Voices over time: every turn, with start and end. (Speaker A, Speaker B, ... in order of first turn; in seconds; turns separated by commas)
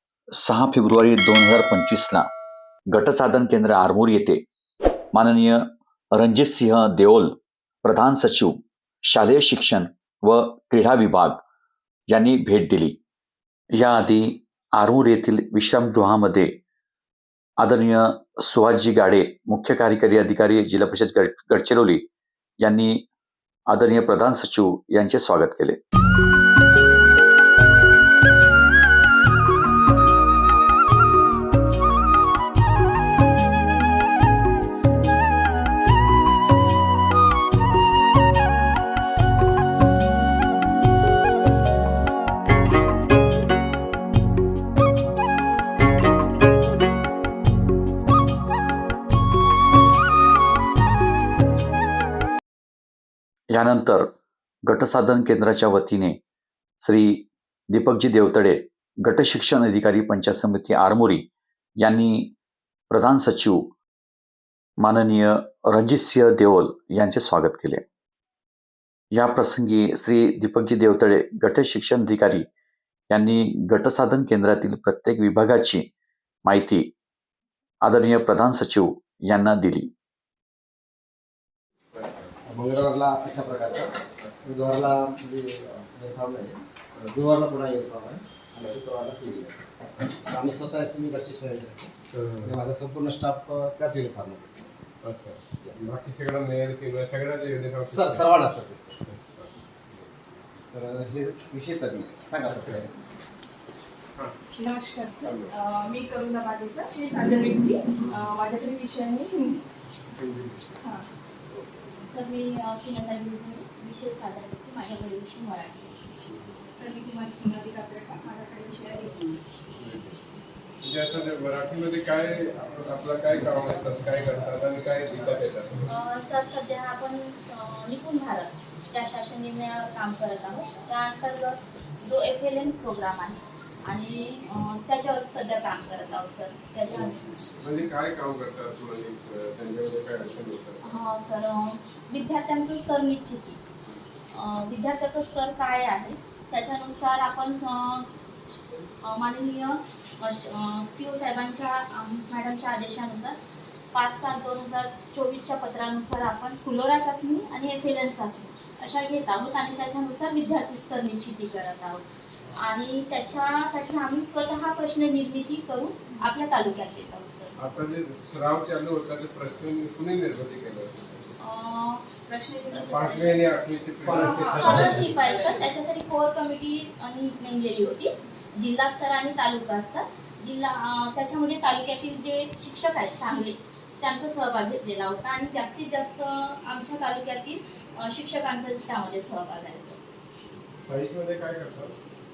Speaker A: 0.4-2.2, Speaker A: 2.9-4.4, Speaker A: 5.1-5.6, Speaker A: 6.1-11.4, Speaker A: 12.1-13.0, Speaker A: 13.8-16.5, Speaker A: 17.6-22.0, Speaker A: 22.6-23.0, Speaker A: 23.7-25.8, Speaker A: 53.5-54.1, Speaker A: 54.7-56.2, Speaker A: 56.8-61.2, Speaker A: 61.8-62.3, Speaker A: 62.9-63.6, Speaker A: 64.8-67.8, Speaker A: 69.2-72.5, Speaker A: 73.1-75.8, Speaker A: 76.5-76.9, Speaker A: 77.8-79.9, Speaker B: 82.5-89.6, Speaker B: 90.3-91.9, Speaker C: 92.1-92.6, Speaker B: 92.4-94.7, Speaker C: 95.0-98.5, Speaker B: 97.9-99.0, Speaker C: 99.1-99.5, Speaker B: 100.7-102.9, Speaker D: 104.5-109.6, Speaker C: 105.2-105.5, Speaker C: 110.1-110.7, Speaker E: 112.0-116.0, Speaker D: 116.7-119.4, Speaker C: 119.8-120.2, Speaker C: 120.8-125.8, Speaker E: 125.9-137.4, Speaker C: 137.6-140.9, Speaker E: 140.8-143.6, Speaker E: 144.3-148.1, Speaker E: 149.0-153.4, Speaker E: 153.9-162.0, Speaker E: 162.6-167.5, Speaker C: 167.6-171.4, Speaker E: 171.4-173.5, Speaker C: 172.8-175.2, Speaker D: 174.0-175.6, Speaker E: 174.1-190.0, Speaker C: 190.8-192.0